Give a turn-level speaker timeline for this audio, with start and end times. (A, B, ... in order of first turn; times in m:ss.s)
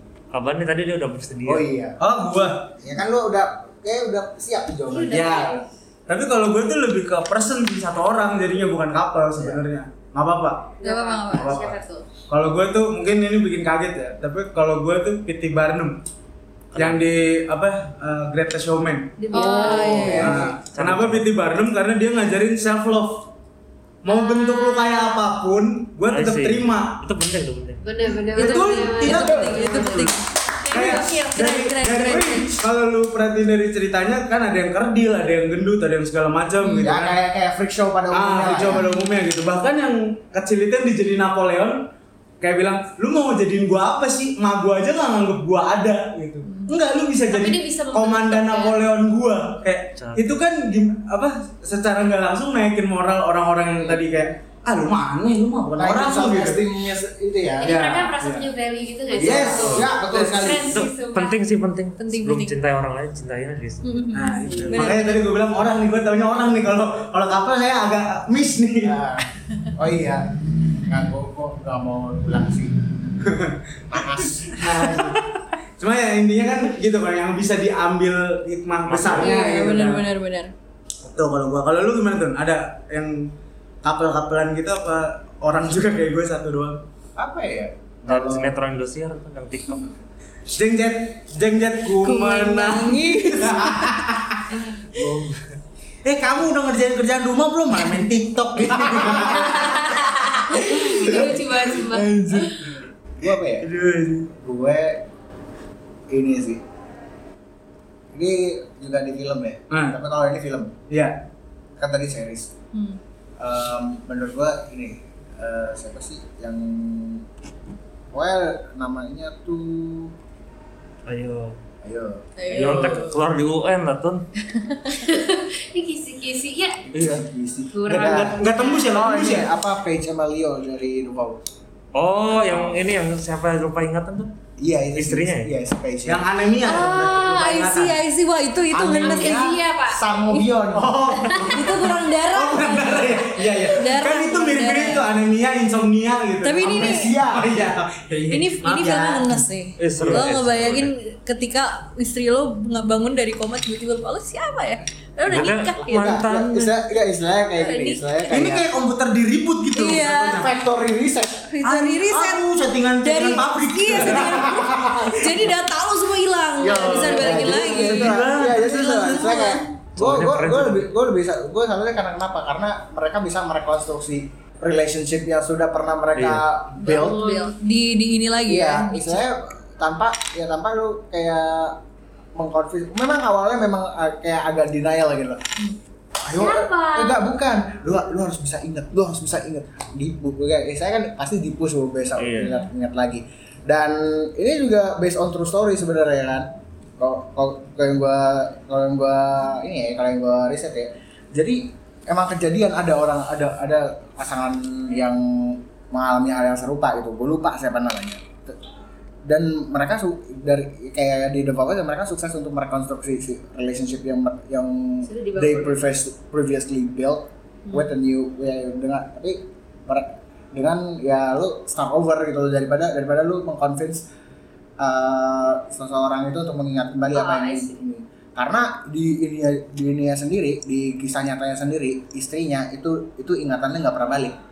0:00.3-0:01.6 A
0:01.4-0:02.0 B
0:02.0-0:02.7 C
0:02.8-0:05.6 B
0:04.9-0:05.5 D
0:05.1-0:10.7 C
0:10.8-0:12.0 D
0:10.8-0:11.6 E
0:11.3-0:11.8 C
0:12.3-0:16.0 C
0:16.7-0:17.0 A
0:16.8-0:23.3 C
0:19.2-0:20.2 D
0:19.3-0:20.4 E
0:19.6-0:20.6 B
0:20.0-0:21.3 A
0:24.0-0:27.0 C
0:24.1-0:25.1 D
0:26.1-0:27.8 A
0:27.8-0:30.1 D
0:28.4-0:30.1 C
0:28.4-0:32.5 E
0:29.1-0:29.7 B
0:30.6-0:31.0 D
0:30.7-0:37.2 C
0:36.6-0:36.9 E
0:36.8-0:38.9 B
0:38.1-0:41.8 C
0:38.8-0:39.1 E
0:42.4-0:56.6 C
0:46.4-0:46.7 E
0:47.3-0:48.8 D
0:50.0-0:50.4 A
0:53.8-0:54.2 B
0:55.8-0:57.8 B
0:57.6-1:01.4 D
0:57.6-0:58.5 C
0:59.1-1:00.9 B
0:59.2-0:59.7 C
0:59.6-0:59.9 A
1:00.6-1:04.1 A
1:02.0-1:02.6 E
1:03.8-1:05.2 E
1:04.1-1:09.0 C
1:04.4-1:04.9 D
1:08.8-1:10.3 B
1:10.9-1:12.8 B
1:13.2-1:13.6 C
1:13.9-1:15.2 B
1:14.5-1:15.2 C
1:15.8-1:20.1 C
1:18.9-1:19.4 A
1:19.1-1:20.5 E
1:21.0-1:26.8 C
1:27.2-1:28.6 B
1:28.0-1:30.0 A
1:30.5-1:35.4 C
1:32.0-1:34.1 E
1:34.9-1:35.4 B
1:36.0-1:42.0 C
1:38.6-1:39.6 B
1:39.2-1:42.5 D
1:40.8-1:42.5 B
1:43.2-1:43.7 B
1:43.6-1:44.3 C
1:44.4-1:45.0 B
1:46.1-1:46.6 B
1:48.1-1:50.8 B
1:49.7-1:50.0 C
1:50.9-1:51.2 C
1:51.8-1:52.5 B
1:52.7-1:53.0 E
1:53.4-1:57.2 B
1:58.1-2:00.1 B
2:01.1-2:01.6 A
2:01.8-2:02.3 B
2:02.4-2:03.2 E
2:02.5-2:04.3 A
2:04.5-2:05.0 E
2:04.9-2:06.9 D
2:06.9-2:11.4 B
2:06.9-2:07.2 A
2:07.7-2:09.0 D
2:07.8-2:09.5 C
2:11.9-2:14.3 A
2:12.4-2:12.7 B
2:14.6-2:16.3 B
2:15.0-2:15.5 A
2:16.0-2:18.0 C
2:16.6-2:19.4 E
2:16.7-2:17.1 D
2:18.7-2:21.3 B
2:19.0-2:20.2 D
2:20.7-2:29.4 C
2:21.2-2:21.5 D
2:21.4-2:25.0 E
2:26.4-2:27.1 E
2:26.6-2:27.6 B
2:28.3-2:36.2 E
2:29.8-2:30.9 A
2:35.2-2:36.7 A
2:35.4-2:38.7 B
2:37.6-2:38.0 E
2:38.3-2:40.5 C
2:39.7-2:40.4 E
2:40.3-2:41.5 B
2:41.5-2:42.4 E
2:41.6-2:44.6 C
2:43.0-2:48.2 E
2:44.2-2:45.4 B
2:46.6-2:57.2 B
2:46.6-2:49.6 C
2:49.0-2:49.6 E
2:50.0-2:50.9 A
2:56.1-2:56.4 A
2:56.8-2:59.2 E
2:56.9-2:57.5 D
2:58.5-3:01.8 B
3:02.3-3:05.4 B
3:06.2-3:16.5 B
3:06.3-3:07.3 D
3:12.2-3:12.6 A
3:17.0-3:28.6 B
3:29.2-3:44.0 B
3:35.0-3:35.9 D
3:44.8-3:54.4 B
3:47.1-3:47.8 D